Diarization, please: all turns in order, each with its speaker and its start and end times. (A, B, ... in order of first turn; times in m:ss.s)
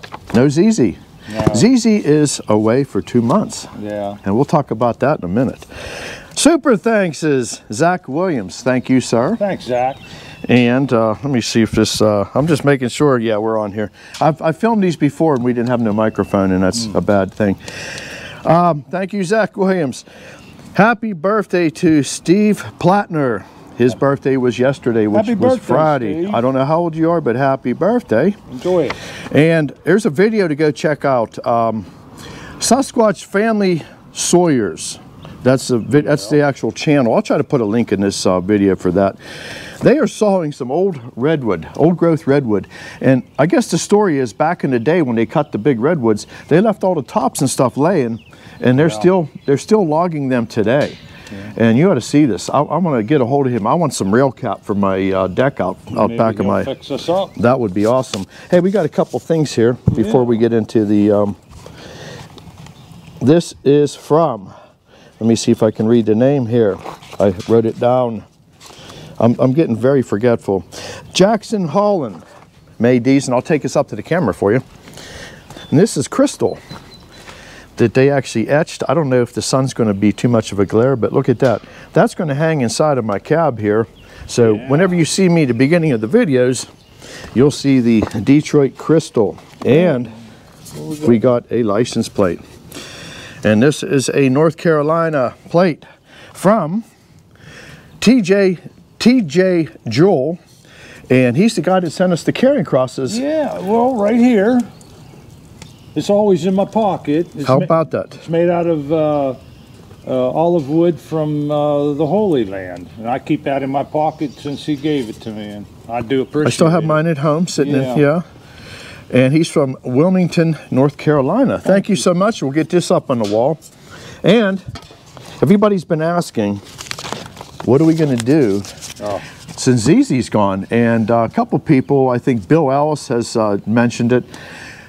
0:00.3-0:03.7 A
0:01.3-0:01.6 B
0:03.7-0:04.2 B
0:04.2-0:05.7 A
0:06.3-0:09.4 A
0:09.4-0:10.0 B
0:10.4-0:17.6 A
0:18.4-0:20.0 A
0:20.7-0:28.4 A
0:25.1-0:26.4 B
0:28.5-0:29.0 B
0:29.3-0:31.9 A
0:32.6-0:39.2 A
0:36.0-0:36.4 B
0:39.8-0:51.0 A
0:48.8-0:49.1 B
0:51.5-0:56.7 A
0:55.9-0:57.3 B
0:57.4-1:01.4 A
1:00.0-1:00.3 B
1:03.2-1:04.5 A
1:05.2-1:08.2 A
1:09.2-1:12.2 A
1:12.8-1:14.6 A
1:15.7-1:16.6 A
1:17.8-1:26.7 A
1:24.5-1:24.9 B
1:27.3-1:30.1 A
1:29.7-1:30.0 B
1:30.8-1:31.1 B
1:31.0-1:32.4 A
1:33.4-1:36.8 A
1:38.0-1:40.4 A
1:41.1-1:43.2 A
1:43.1-1:44.7 B
1:45.9-1:49.4 B
1:47.4-1:48.2 A
1:50.0-1:57.0 B
1:56.4-1:58.2 A
1:57.6-1:58.0 B
1:59.1-2:03.6 A
2:04.2-2:04.6 A
2:05.4-2:06.6 A
2:07.6-2:08.7 A
2:09.6-2:14.3 A